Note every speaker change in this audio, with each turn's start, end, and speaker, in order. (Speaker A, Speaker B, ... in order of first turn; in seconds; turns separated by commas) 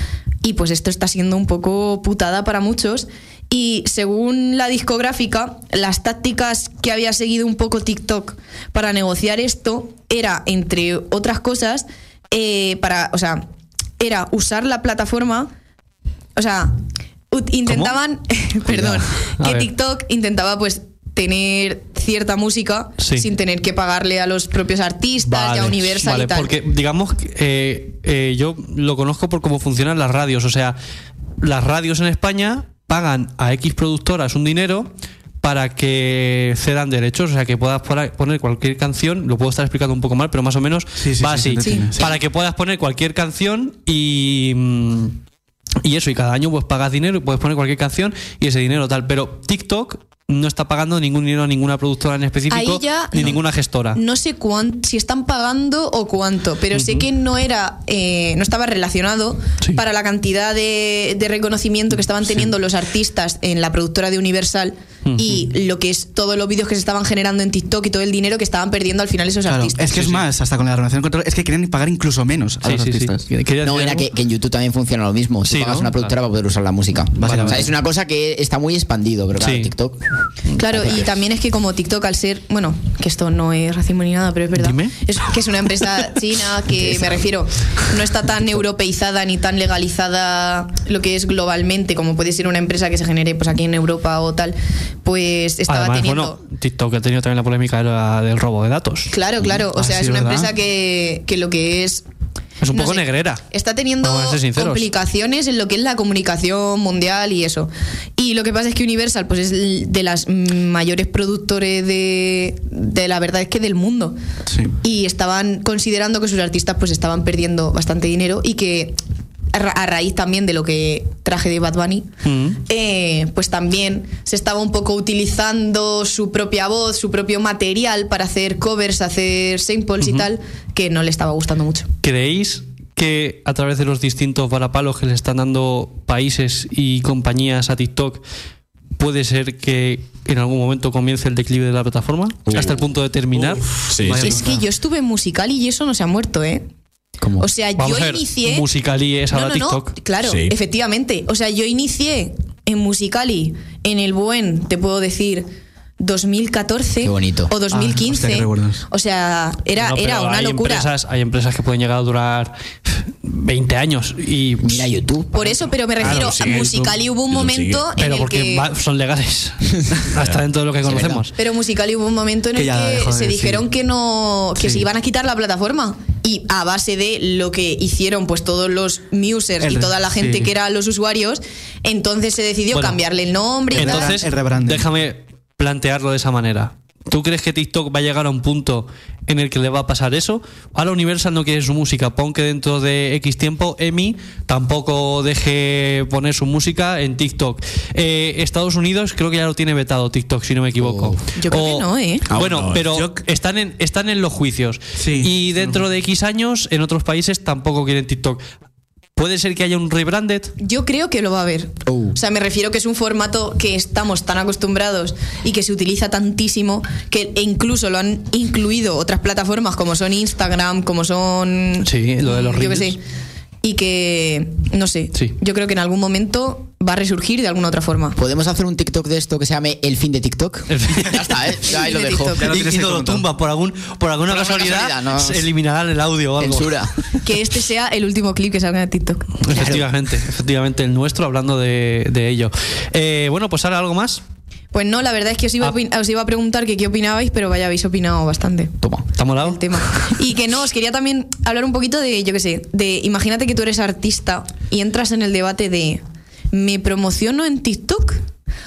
Speaker A: 0.4-13.4, Speaker A: 14.0-15.5, Speaker A: 16.4-16.8, Speaker A: 17.3-26.5, Speaker B: 17.7-18.0, Speaker B: 18.7-19.7, Speaker B: 23.0-23.3, Speaker B: 25.2-30.8, Speaker B: 31.4-34.9, Speaker B: 35.4-45.2, Speaker C: 41.0-42.2, Speaker A: 41.6-41.9, Speaker B: 45.8-54.0, Speaker A: 52.5-53.4, Speaker A: 53.9-70.1, Speaker B: 56.7-57.1, Speaker B: 65.1-65.4, Speaker C: 69.5-73.2, Speaker B: 69.9-70.3, Speaker B: 72.6-74.1, Speaker D: 73.6-80.0, Speaker B: 75.5-76.1, Speaker C: 77.2-77.7, Speaker B: 77.2-77.7, Speaker B: 79.4-79.7, Speaker A: 80.6-96.4, Speaker D: 80.7-81.1, Speaker B: 84.6-85.0, Speaker B: 95.7-99.1, Speaker A: 99.1-102.0, Speaker C: 99.5-100.5, Speaker B: 102.6-103.4, Speaker A: 102.7-114.2, Speaker B: 104.0-104.9, Speaker C: 114.5-114.8, Speaker A: 114.8-119.0, Speaker A: 119.5-122.1, Speaker B: 122.2-122.6, Speaker A: 122.6-131.9, Speaker B: 130.0-130.3, Speaker B: 132.0-138.2, Speaker B: 139.0-143.8, Speaker E: 142.5-142.8, Speaker E: 143.5-144.4, Speaker C: 144.0-144.7, Speaker A: 144.2-146.7, Speaker D: 147.2-147.5, Speaker A: 147.4-148.7, Speaker B: 147.8-150.0, Speaker A: 149.3-155.5, Speaker E: 150.2-150.6, Speaker A: 156.0-160.9, Speaker D: 157.0-157.5, Speaker C: 157.7-158.8, Speaker B: 159.8-164.9, Speaker D: 164.6-165.3, Speaker A: 165.3-168.7, Speaker E: 166.0-167.9, Speaker B: 168.0-171.3, Speaker D: 170.8-171.3, Speaker A: 171.4-184.2, Speaker C: 172.6-173.7, Speaker C: 174.6-174.8, Speaker C: 179.6-180.5, Speaker B: 182.7-183.0, Speaker B: 183.7-208.4, Speaker C: 183.8-184.9, Speaker D: 200.8-201.2, Speaker A: 201.4-202.3, Speaker E: 202.3-202.9, Speaker C: 202.9-203.2, Speaker C: 205.0-205.8, Speaker B: 209.2-210.5, Speaker A: 210.6-223.0, Speaker D: 211.9-212.2, Speaker B: 221.8-223.0, Speaker A: 223.6-228.2, Speaker D: 228.2-232.5, Speaker B: 230.7-231.3, Speaker A: 231.6-232.5, Speaker C: 232.4-233.2, Speaker B: 232.5-237.2, Speaker D: 234.3-235.5, Speaker D: 236.4-236.9, Speaker A: 237.2-239.5, Speaker B: 239.4-244.2, Speaker D: 239.5-239.9, Speaker A: 244.7-248.8, Speaker B: 249.2-249.8, Speaker A: 249.4-258.2